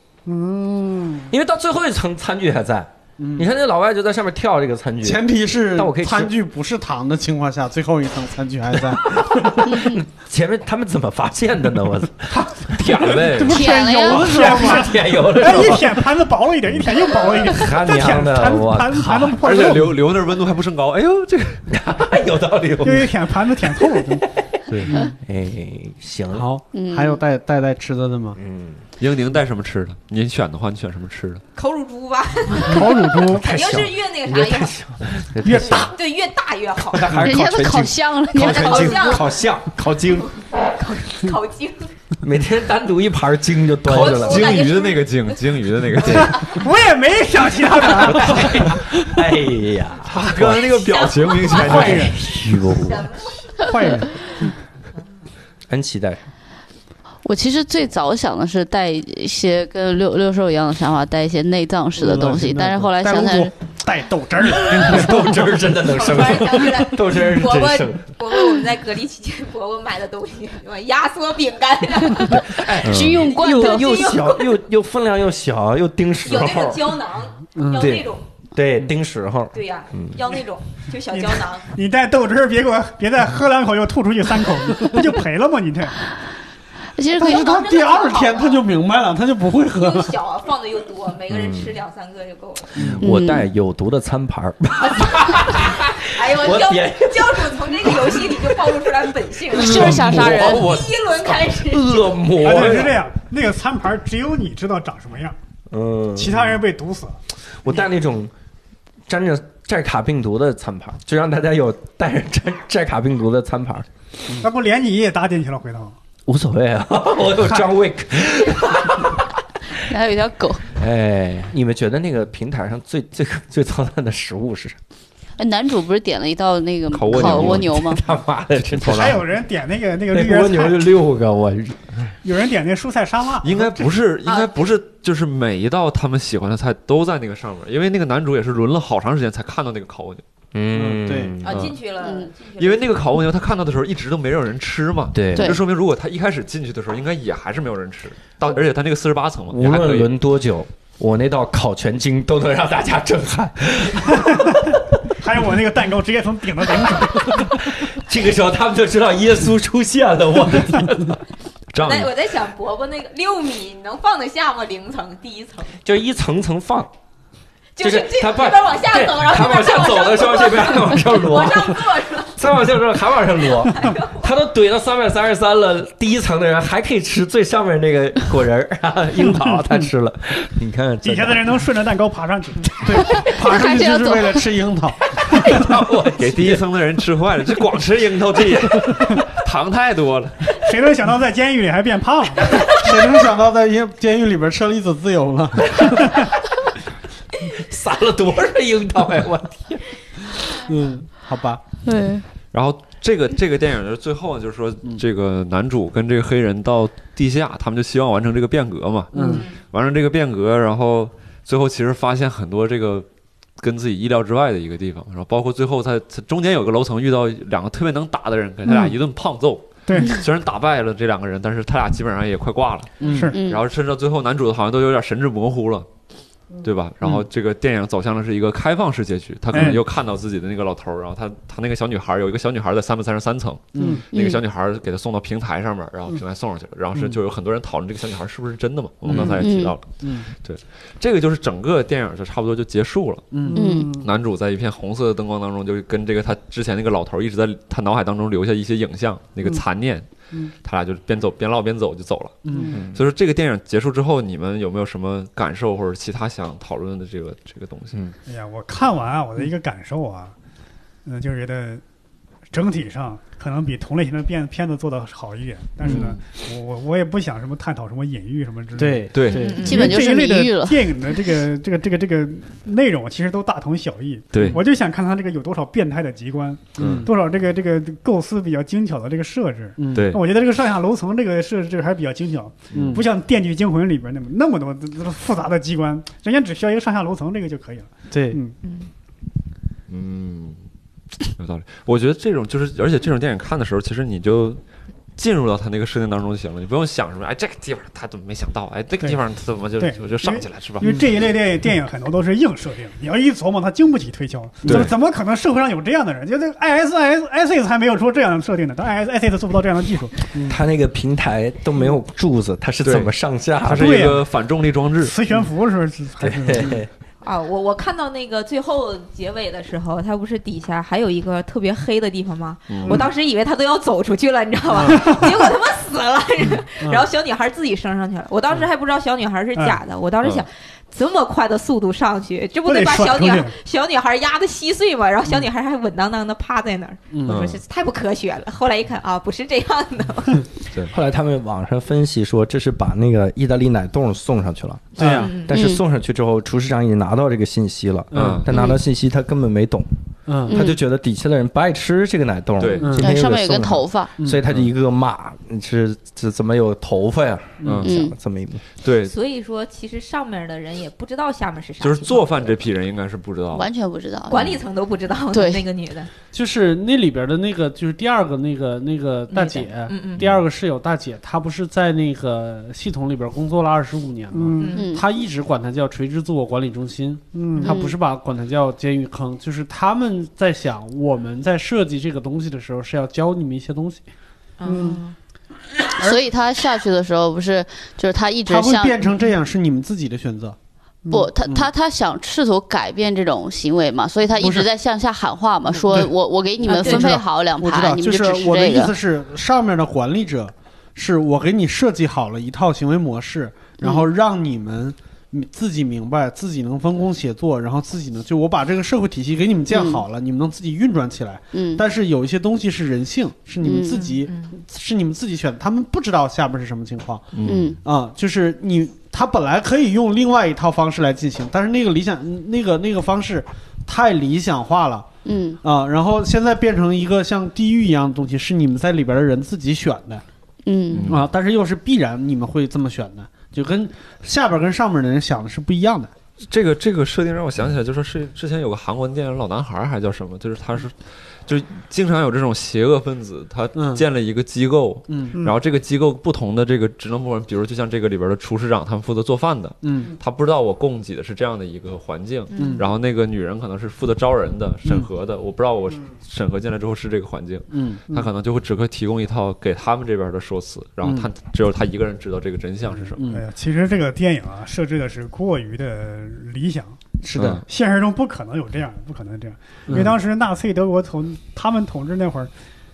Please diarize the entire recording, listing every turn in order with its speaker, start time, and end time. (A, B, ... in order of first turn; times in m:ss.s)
0:00.3-0:01.3 A
0:01.3-0:06.3 B
0:03.2-0:03.5 C
0:05.0-0:09.6 C
0:09.2-0:16.0 B
0:12.7-0:13.6 D
0:13.2-0:15.0 C
0:13.4-0:20.0 A
0:13.4-0:14.6 E
0:17.4-0:19.4 B
0:19.4-0:21.7 D
0:21.7-0:24.6 B
0:22.8-0:24.3 A
0:24.7-0:25.0 D
0:24.8-0:25.1 C
0:25.2-0:26.5 B
0:26.3-0:28.4 C
0:26.7-0:27.2 E
0:28.4-0:28.8 B
0:29.0-0:31.4 D
0:31.6-0:34.8 F
0:32.7-0:33.4 A
0:33.2-0:36.0 B
0:35.4-0:35.9 A
0:35.6-0:37.2 F
0:36.9-0:40.3 B
0:37.1-0:39.2 E
0:38.3-0:39.3 F
0:40.2-0:41.9 F
0:42.2-0:44.6 B
0:43.9-0:46.6 D
0:43.9-0:45.4 F
0:46.0-0:46.3 B
0:46.4-0:48.4 A
0:48.0-0:50.7 B
0:50.0-0:52.2 D
0:50.4-0:53.7 F
0:51.6-0:53.1 B
0:51.7-0:52.1 C
0:51.7-0:52.0 A
0:53.6-0:54.5 C
0:55.7-0:56.2 B
0:57.2-1:03.5 E
1:02.0-1:03.5 C
1:03.8-1:05.2 A
1:04.5-1:05.3 C
1:04.5-1:08.1 B
1:05.7-1:14.6 F
1:12.1-1:14.0 E
1:12.2-1:17.0 B
1:12.8-1:13.2 D
1:16.2-1:18.2 F
1:17.6-1:17.9 C
1:17.7-1:20.2 B
1:19.5-1:21.7 F
1:21.1-1:26.0 A
1:27.0-1:27.6 E
1:27.2-1:30.1 C
1:27.2-1:28.6 F
1:29.8-1:32.8 F
1:31.3-1:31.7 B
1:32.8-1:33.0 C
1:32.8-1:38.8 B
1:33.0-1:33.4 E
1:35.5-1:42.1 F
1:39.5-1:43.0 B
1:39.5-1:40.7 E
1:42.4-1:45.4 A
1:45.7-1:46.5 B
1:46.2-1:47.2 A
1:47.6-1:48.3 B
1:49.1-1:53.9 B
1:54.4-1:56.0 A
1:56.3-1:59.4 B
1:59.8-2:00.7 E
2:00.8-2:04.8 B
2:05.4-2:08.0 E
2:06.9-2:07.8 D
2:07.1-2:09.2 B
2:08.7-2:09.0 D
2:08.9-2:10.9 A
2:10.1-2:11.9 B
2:12.2-2:13.9 A
2:13.4-2:20.2 D
2:14.2-2:14.5 F
2:20.5-2:21.7 B
2:20.8-2:21.4 C
2:21.4-2:22.9 F
2:21.5-2:21.8 D
2:22.0-2:22.3 E
2:22.6-2:30.1 D
2:25.1-2:25.6 B
2:25.4-2:25.6 E
2:29.5-2:34.8 B
2:34.2-2:37.4 A
2:36.8-2:41.2 B
2:41.7-2:42.1 D
2:41.8-2:45.8 F
2:45.8-2:46.9 B
2:47.8-2:52.4 F
2:47.8-3:01.6 B
2:53.6-2:54.2 F
2:59.3-2:59.6 A
3:01.0-3:02.7 A
3:02.8-3:05.6 C
3:03.1-3:04.4 E
3:05.2-3:06.6 B
3:06.1-3:10.6 D
3:10.6-3:12.7 A
3:12.7-3:16.1 C
3:17.4-3:19.9 B
3:20.6-3:21.6 C
3:21.8-3:22.3 E
3:22.5-3:33.1 D
3:29.1-3:29.5 C
3:29.2-3:29.5 F
3:33.6-3:45.9 D
3:39.9-3:40.2 A
3:43.0-3:43.4 C
3:43.0-3:43.4 A
3:43.3-3:43.6 E
3:46.6-4:03.3 D
3:49.5-3:49.8 A
3:53.7-3:54.0 C
3:53.8-3:54.0 A
3:54.1-3:54.4 E
3:59.0-3:59.4 C
3:59.3-3:59.8 E
4:00.0-4:00.3 C
4:03.3-4:03.7 C
4:03.5-4:04.1 A
4:03.6-4:03.9 E
4:03.9-4:18.1 D
4:12.4-4:12.8 C
4:18.3-4:20.3 A
4:21.0-4:21.8 A
4:22.5-4:48.6 A
4:25.8-4:26.2 C
4:28.8-4:29.9 C
4:29.1-4:29.6 D
4:29.3-4:29.9 F
4:29.6-4:30.9 E
4:34.3-4:34.6 D
4:36.8-4:37.1 D
4:36.8-4:37.1 C
4:39.8-4:40.1 C
4:39.9-4:40.2 D
4:42.7-4:43.0 D
4:42.7-4:43.0 C
4:48.1-4:48.4 C
4:48.6-4:48.9 F
4:49.9-4:50.6 D
4:51.4-4:54.6 D
4:55.2-5:00.9 D
4:59.8-5:10.2 A
5:00.8-5:01.1 C
5:04.6-5:04.9 C
5:04.6-5:04.9 D
5:10.5-5:14.1 B
5:12.8-5:13.1 D
5:13.6-5:15.2 D
5:13.8-5:14.2 A
5:15.0-5:16.8 A
5:16.2-5:16.9 B
5:17.2-5:40.5 F
5:22.7-5:23.0 D
5:24.7-5:25.1 C
5:24.8-5:25.4 A
5:26.8-5:27.1 C
5:32.6-5:33.5 A
5:37.1-5:37.4 C
5:37.3-5:37.6 D
5:40.9-5:49.9 B
5:45.0-5:45.4 C
5:45.0-5:45.6 F
5:45.5-5:45.8 E
5:48.1-5:48.4 C
5:48.1-5:48.6 D
5:48.5-5:48.8 E
5:50.3-5:50.6 C
5:50.5-5:58.6 B
5:50.5-5:50.8 E
5:52.6-5:53.0 D
5:52.8-5:53.1 C
5:52.9-5:54.1 E
5:54.2-5:54.4 C
5:57.6-5:57.9 C
5:57.6-5:57.9 D
5:57.8-5:58.2 E
5:58.8-5:59.2 D
5:59.0-6:02.5 F
6:01.8-6:03.7 D
6:03.5-6:04.6 E
6:04.3-6:06.1 F
6:05.3-6:05.6 E
6:06.3-6:24.0 C
6:09.3-6:10.2 F
6:10.0-6:10.4 D
6:14.3-6:14.8 A
6:14.6-6:15.0 F
6:14.8-6:15.1 E
6:17.3-6:17.8 A
6:17.6-6:18.0 E
6:24.6-6:25.2 F
6:24.7-6:25.0 A
6:26.0-6:29.0 E
6:28.5-6:30.6 C
6:31.1-6:39.0 E
6:31.4-6:31.7 C
6:34.4-6:34.7 C
6:35.8-7:05.1 C
6:36.6-6:37.2 F
6:43.8-6:44.1 E
6:49.7-6:50.0 E
6:51.5-6:51.8 E
6:53.6-6:54.1 E
6:53.9-6:54.5 F
6:57.3-6:57.8 D
6:57.4-6:57.8 E
7:05.2-7:05.6 E
7:05.6-7:10.2 C
7:10.7-7:11.2 E
7:10.9-7:11.3 D
7:11.1-7:16.1 C
7:16.4-7:43.2 D
7:23.7-7:24.0 C
7:25.1-7:25.4 C
7:29.8-7:30.1 C
7:32.5-7:32.9 F
7:32.6-7:32.9 C
7:37.7-7:38.0 C
7:41.0-7:41.3 C
7:43.2-7:43.4 C
7:43.3-7:47.0 A
7:47.2-7:47.6 C
7:47.4-7:47.6 D
7:47.6-7:52.5 A
7:49.9-7:50.1 C